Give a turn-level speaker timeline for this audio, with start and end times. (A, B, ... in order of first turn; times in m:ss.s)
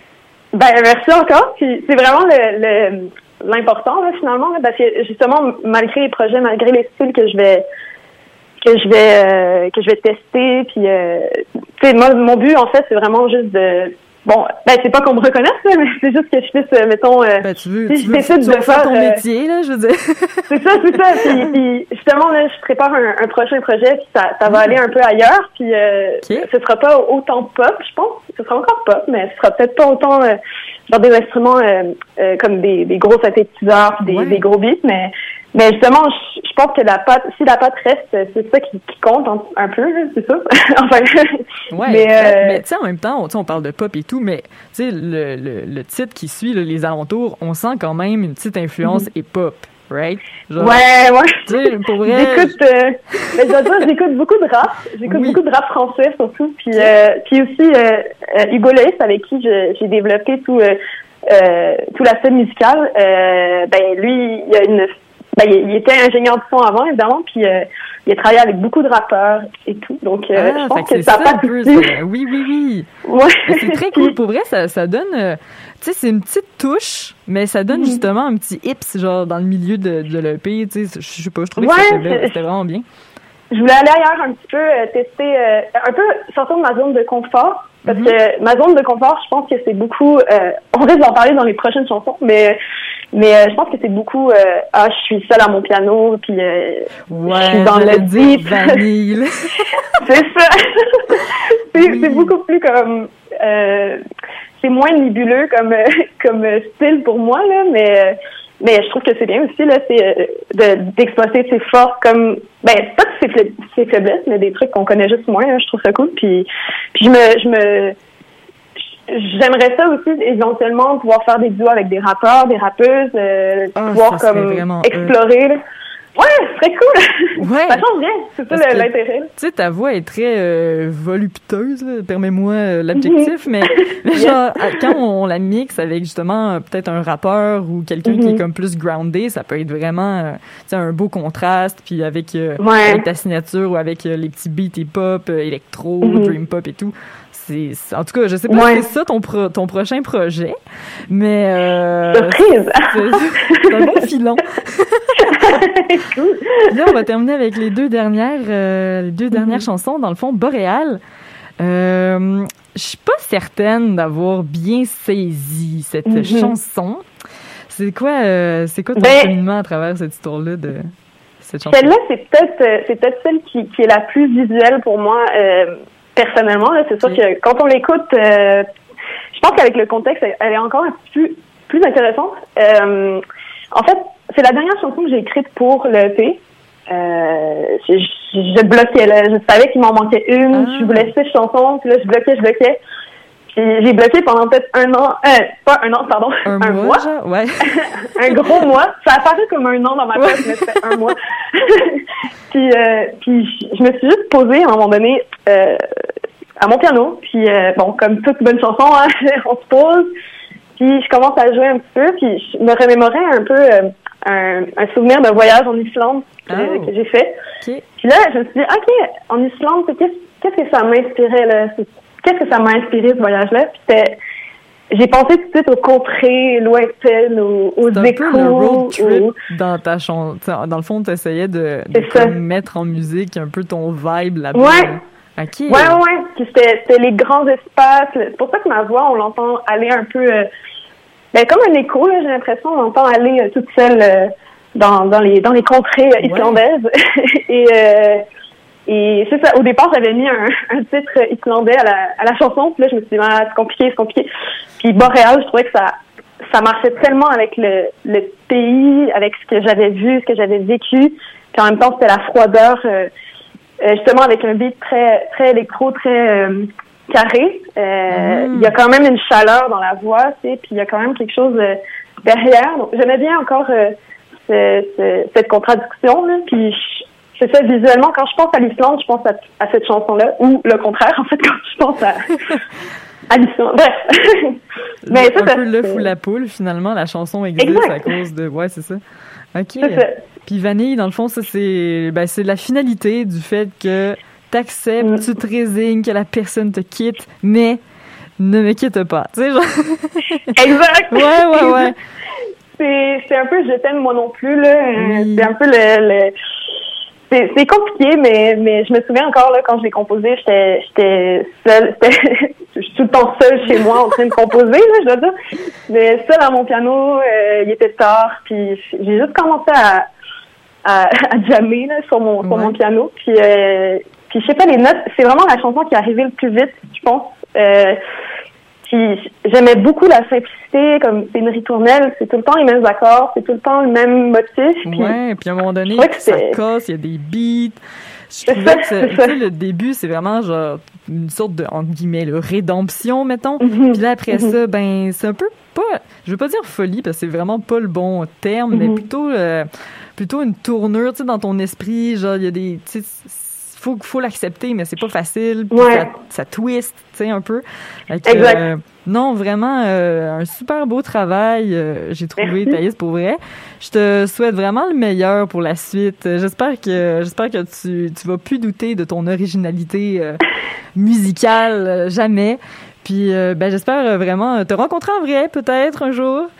0:00.5-0:07.6 A
0:08.6-0:19.2 A
0:17.4-0:21.5 B
0:20.5-0:30.4 A
0:24.5-0:24.8 B
0:30.9-0:42.6 A
0:34.1-0:34.4 B
0:41.7-0:50.8 B
0:50.6-1:00.8 A
0:51.4-0:52.6 B
0:55.0-0:55.4 B
1:01.3-1:11.9 A
1:10.3-1:12.9 B
1:13.1-1:14.1 A
1:13.5-1:22.8 B
1:17.7-1:18.0 A
1:21.6-1:22.3 A
1:23.5-1:32.6 A
1:27.9-1:28.1 B
1:33.1-1:38.8 A
1:37.1-1:40.0 B
1:40.0-1:41.2 A
1:41.7-1:44.0 A
1:41.8-1:42.3 B
1:44.6-1:58.0 A
1:59.1-2:05.6 A
2:03.8-2:05.1 B
2:06.2-2:09.3 A
2:07.4-2:07.8 B
2:08.5-2:30.6 B
2:14.1-2:14.9 A
2:18.0-2:18.4 A
2:22.6-2:23.0 A
2:26.0-2:26.3 A
2:28.5-2:28.8 A
2:31.1-2:35.6 B
2:32.1-2:34.0 A
2:35.2-2:36.8 A
2:36.7-2:41.0 B
2:39.3-2:39.6 A
2:41.6-2:47.0 B
2:46.1-2:46.5 A
2:47.7-2:50.9 B
2:49.0-2:49.3 A
2:51.4-2:51.9 B
2:51.7-2:58.7 A
2:59.3-3:03.2 A
3:03.7-3:12.8 A
3:10.5-3:11.1 B
3:13.5-3:17.0 A
3:16.4-3:17.8 B
3:17.7-3:25.8 A
3:20.2-3:20.9 B
3:26.6-3:30.1 A
3:30.8-3:37.4 A
3:36.5-3:36.9 B
3:38.0-3:44.2 A
3:44.9-3:49.3 A
3:47.9-3:56.0 B
3:51.9-3:52.3 A
3:54.5-3:54.9 A
3:55.7-4:00.5 A
4:01.3-4:08.2 A
4:06.2-4:06.6 B
4:08.9-4:14.3 A
4:14.8-4:15.9 A
4:16.5-4:23.1 A
4:23.8-4:33.9 A
4:28.1-4:28.7 B
4:34.5-4:42.4 A
4:43.3-4:44.6 A
4:45.1-4:49.0 B
4:45.1-4:46.1 A
4:47.6-4:48.1 A
4:49.5-4:57.8 B
4:49.8-4:50.2 A
4:58.4-5:00.4 B
5:00.5-5:01.9 A
5:01.1-5:01.9 B
5:02.8-5:06.3 A
5:05.0-5:05.5 B
5:07.3-5:15.3 A
5:15.9-5:20.1 A
5:20.8-5:28.0 A
5:22.4-5:22.8 B
5:28.8-5:35.1 A
5:34.8-5:37.8 B
5:36.0-5:36.6 A
5:38.3-6:10.4 B
5:38.5-5:39.3 A
5:43.6-5:44.5 A
5:48.7-5:49.0 A
5:55.7-5:56.0 A
5:58.2-5:58.6 A
6:02.4-6:02.8 A
6:11.0-6:16.5 B